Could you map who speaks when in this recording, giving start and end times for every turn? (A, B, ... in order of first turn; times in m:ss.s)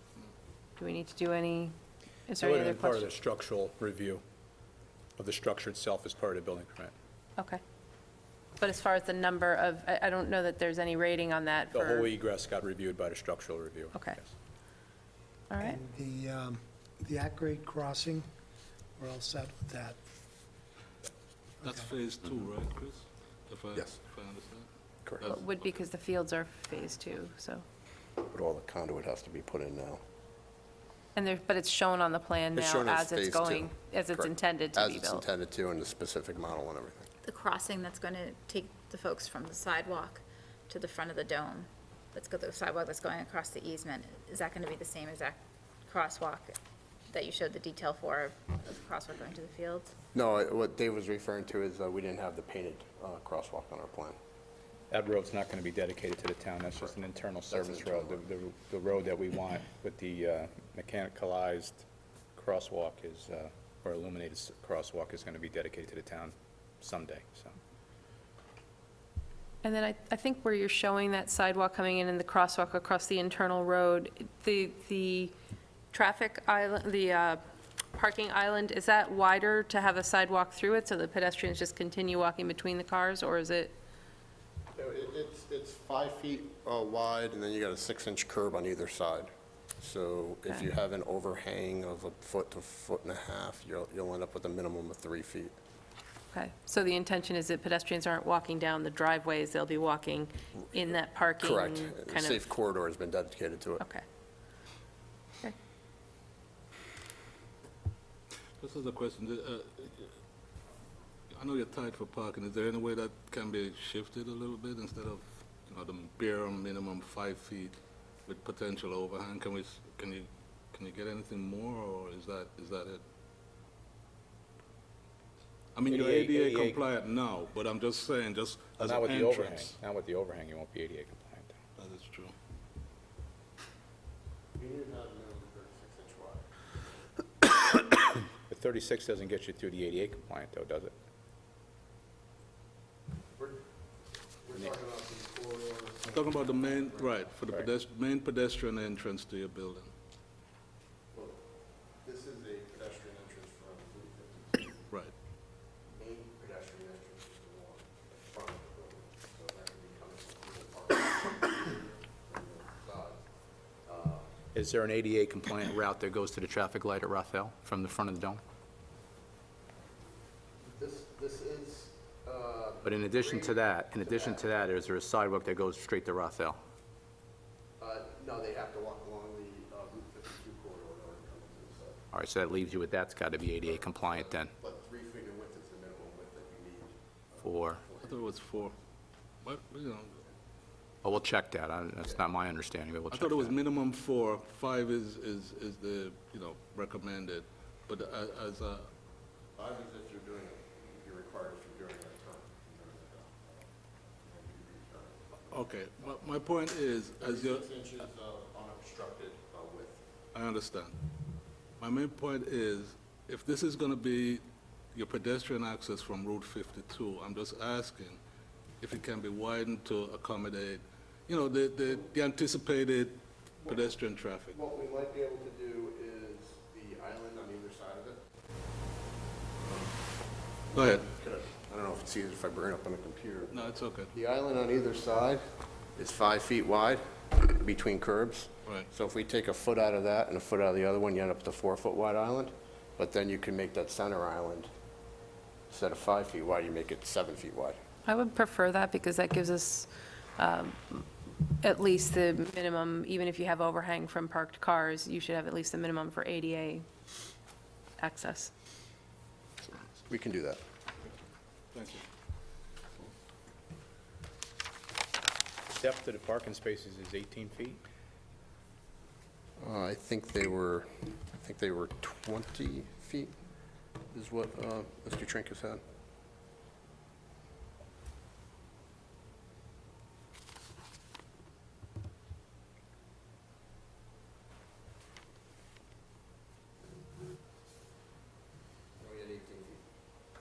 0:00.8-0:01.7 A
0:02.3-0:03.1 A
0:02.4-0:04.2 B
0:05.2-0:06.9 B
0:08.6-0:12.1 A
0:11.7-0:14.3 B
0:13.9-0:14.2 A
0:15.5-0:15.8 A
0:15.6-0:18.3 C
0:19.0-0:20.0 C
0:21.6-0:21.9 C
0:21.6-0:24.6 D
0:25.2-0:27.6 A
0:28.2-0:30.0 E
0:31.1-0:35.2 A
0:32.5-0:37.1 E
0:37.2-0:46.6 F
0:47.1-0:49.9 F
0:50.1-0:54.2 E
0:54.9-1:01.8 B
0:57.5-0:58.2 E
1:02.3-1:07.5 B
1:09.6-1:15.3 A
1:15.9-1:23.7 A
1:24.7-1:35.5 E
1:36.3-1:42.4 A
1:41.4-1:43.8 E
1:48.6-1:50.1 D
1:51.3-2:03.0 D
2:05.7-2:09.7 D
2:05.8-2:06.8 B
2:08.8-2:11.5 B
2:11.8-2:12.3 D
2:14.6-2:16.5 E
2:18.4-2:20.9 B
2:23.4-2:23.6 E
2:24.4-2:27.2 E
2:26.1-2:29.9 D
2:31.1-2:31.4 E
2:32.0-2:34.9 E
2:36.0-2:43.2 E
2:43.8-2:44.3 E
2:44.5-2:48.4 B
2:50.6-2:54.4 E
2:52.8-2:56.6 B
2:57.8-3:02.0 E
3:02.1-3:04.5 B
3:03.7-3:08.7 E
3:07.4-3:07.8 B
3:08.0-3:08.7 D
3:09.4-3:10.2 D
3:11.0-3:13.6 B
3:13.1-3:18.9 D
3:19.5-3:23.7 E
3:24.2-3:25.6 E
3:25.5-3:27.6 D
3:27.2-3:30.0 E
3:30.3-3:31.0 D
3:31.8-3:38.2 D
3:38.8-3:44.6 D
3:43.6-3:44.0 E
3:44.5-3:48.2 E
3:49.6-3:50.0 E
3:50.7-3:55.4 E
3:50.7-3:51.0 D
3:53.5-3:54.1 D
3:56.0-4:04.7 E
4:05.7-4:07.8 E
4:08.0-4:11.0 A
4:11.6-4:16.8 A
4:18.0-4:18.5 A
4:20.1-4:20.6 E
4:21.7-4:22.0 D
4:25.7-4:27.8 B
4:29.6-4:33.3 E
4:34.1-4:35.8 E
4:49.0-4:49.8 E